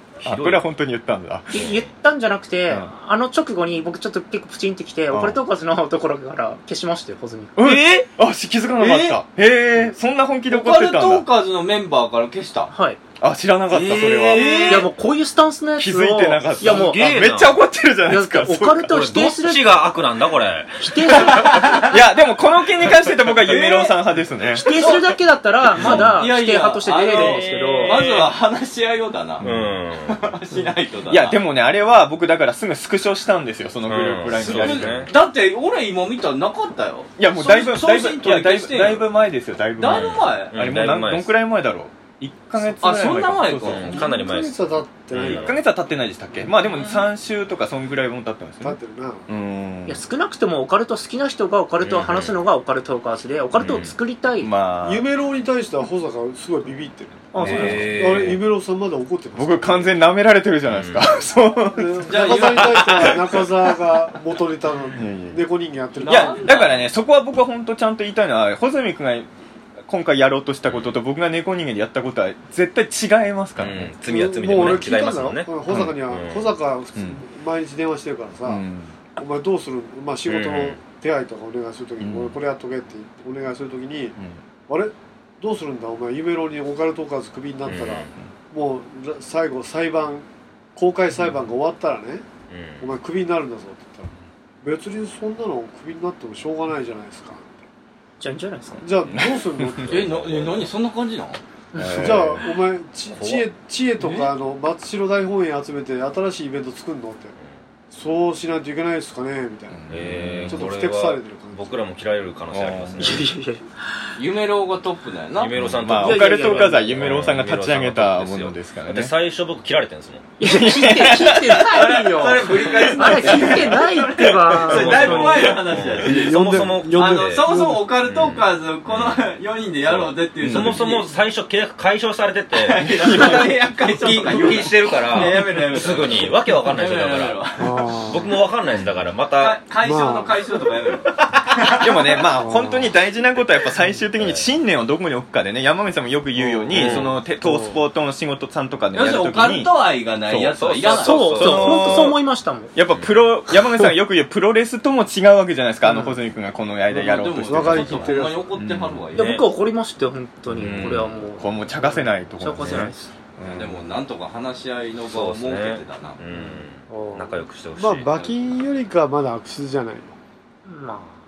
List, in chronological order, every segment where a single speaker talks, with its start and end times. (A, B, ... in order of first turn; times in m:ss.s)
0:00.2-0:01.5 A
0:00.2-0:00.6 B
0:01.5-0:07.6 C
0:01.5-0:01.8 B
0:05.1-0:05.4 A
0:07.6-0:11.2 A
0:08.8-0:09.2 D
0:10.5-0:12.7 D
0:12.7-0:13.0 C
0:13.2-0:14.9 A
0:13.7-0:14.9 D
0:14.2-0:17.1 C
0:15.8-0:19.0 A
0:16.6-0:17.6 B
0:18.1-0:19.8 C
0:18.9-0:21.5 B
0:20.8-0:21.7 C
0:21.3-0:21.9 D
0:21.3-0:24.7 A
0:23.2-0:24.0 D
0:24.5-0:25.1 D
0:24.5-0:28.0 C
0:25.7-0:29.4 D
0:25.8-0:26.1 A
0:25.8-0:26.1 B
0:27.1-0:27.8 A
0:27.8-0:28.3 B
0:29.4-0:29.7 A
0:29.4-0:30.2 B
0:30.0-0:31.4 D
0:31.1-0:35.1 A
0:33.9-0:35.1 B
0:34.4-0:39.0 D
0:37.2-0:44.0 A
0:39.8-0:40.5 D
0:39.8-0:41.3 B
0:42.8-0:44.1 D
0:43.5-0:45.6 B
0:43.8-0:45.6 E
0:45.2-0:50.0 A
0:48.6-0:49.3 E
0:49.8-0:54.5 C
0:51.8-0:52.4 B
0:53.6-0:54.0 B
0:54.4-0:55.1 A
0:54.8-0:59.9 E
0:57.3-0:58.2 C
0:57.3-0:58.3 A
0:57.4-0:58.4 B
0:59.3-1:03.4 A
1:00.7-1:01.1 B
1:01.7-1:06.5 E
1:02.0-1:03.1 D
1:04.9-1:05.4 A
1:06.0-1:06.7 D
1:06.1-1:09.3 A
1:09.8-1:13.9 A
1:10.7-1:10.9 B
1:13.6-1:16.5 B
1:14.0-1:18.6 E
1:15.7-1:16.0 A
1:17.0-1:17.2 A
1:18.4-1:19.0 A
1:19.2-1:24.2 E
1:20.3-1:20.8 B
1:22.0-1:22.4 A
1:24.7-1:32.2 E
1:27.6-1:28.1 B
1:32.5-1:32.9 B
1:32.8-1:34.1 E
1:34.6-1:37.4 E
1:38.2-1:38.8 C
1:38.8-1:40.6 E
1:39.1-1:40.0 A
1:39.9-1:41.4 D
1:41.7-1:42.3 C
1:41.7-1:42.5 A
1:41.9-1:47.3 E
1:43.1-1:43.4 B
1:44.0-1:44.3 D
1:47.9-1:49.8 E
1:49.7-1:50.6 A
1:49.9-1:53.2 B
1:50.5-1:51.8 E
1:52.5-1:53.2 A
1:53.0-1:53.7 C
1:54.2-1:55.5 D
1:55.4-2:00.3 B
1:55.5-1:59.1 A
1:56.0-1:56.8 C
2:00.4-2:05.5 C
2:00.4-2:05.8 A
2:02.1-2:04.0 D
2:04.5-2:11.1 D
2:04.7-2:05.3 E
2:04.9-2:07.5 B
2:06.0-2:07.8 E
2:08.0-2:09.2 B
2:09.9-2:17.4 B
2:10.4-2:10.8 A
2:12.6-2:17.9 D
2:12.7-2:14.4 A
2:14.3-2:14.7 E
2:17.6-2:18.4 E
2:18.0-2:19.6 B
2:18.7-2:19.1 A
2:19.4-2:21.6 D
2:19.8-2:20.4 E
2:21.6-2:29.7 A
2:22.3-2:22.9 E
2:24.2-2:24.5 B
2:26.3-2:27.8 E
2:26.7-2:27.2 B
2:28.9-2:31.5 D
2:30.3-2:30.6 A
2:30.6-2:32.1 B
2:30.8-2:32.7 C
2:31.2-2:32.2 A
2:32.7-2:39.1 A
2:32.9-2:33.2 B
2:36.9-2:38.5 E
2:37.0-2:39.4 D
2:39.1-2:39.5 B
2:39.1-2:43.1 C
2:40.5-2:41.1 B
2:40.6-2:43.8 A
2:42.6-2:42.9 B
2:43.5-2:46.2 D
2:45.1-2:48.1 B
2:46.9-2:50.2 E
2:48.1-2:48.4 D
2:50.6-2:51.1 C